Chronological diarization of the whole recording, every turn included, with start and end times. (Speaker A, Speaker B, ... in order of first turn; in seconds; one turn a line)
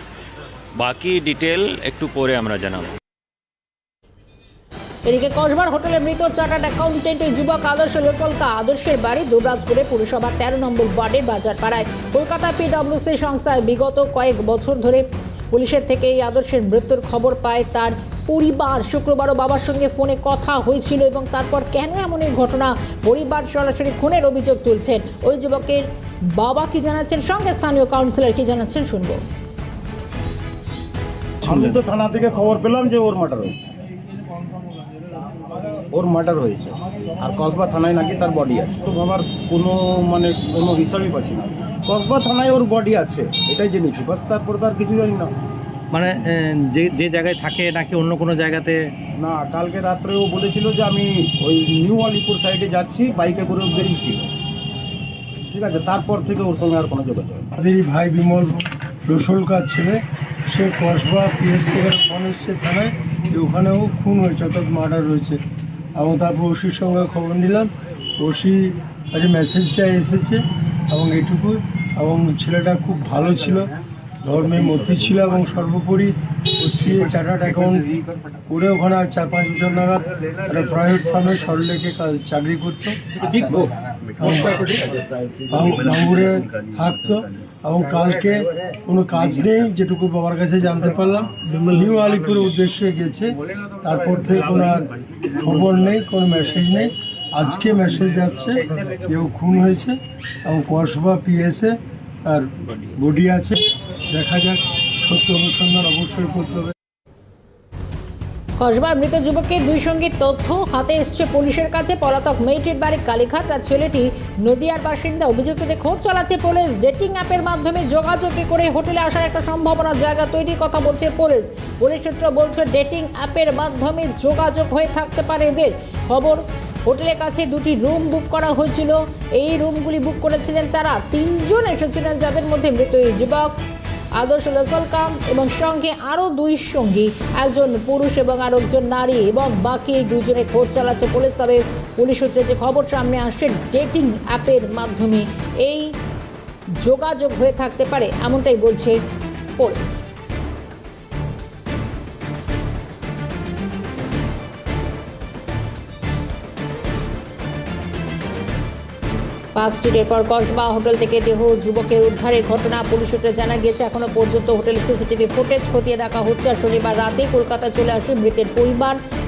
Speaker A: 0.8-2.9
Speaker B: 5.0-29.2
Speaker C: 31.4-33.6
Speaker C: 35.9-45.3
Speaker D: 46.8-48.7
Speaker C: 49.2-54.3
Speaker C: 55.5-57.4
Speaker E: 57.6-65.4
Speaker E: 66.0-73.7
Speaker E: 74.2-77.9
Speaker E: 78.5-83.2
Speaker E: 84.2-84.8
Speaker E: 85.5-106.7
Speaker B: 108.6-133.5
Speaker B: 134.2-145.9
Speaker B: 146.8-149.0
Speaker B: 149.6-150.0
Speaker B: 159.6-169.0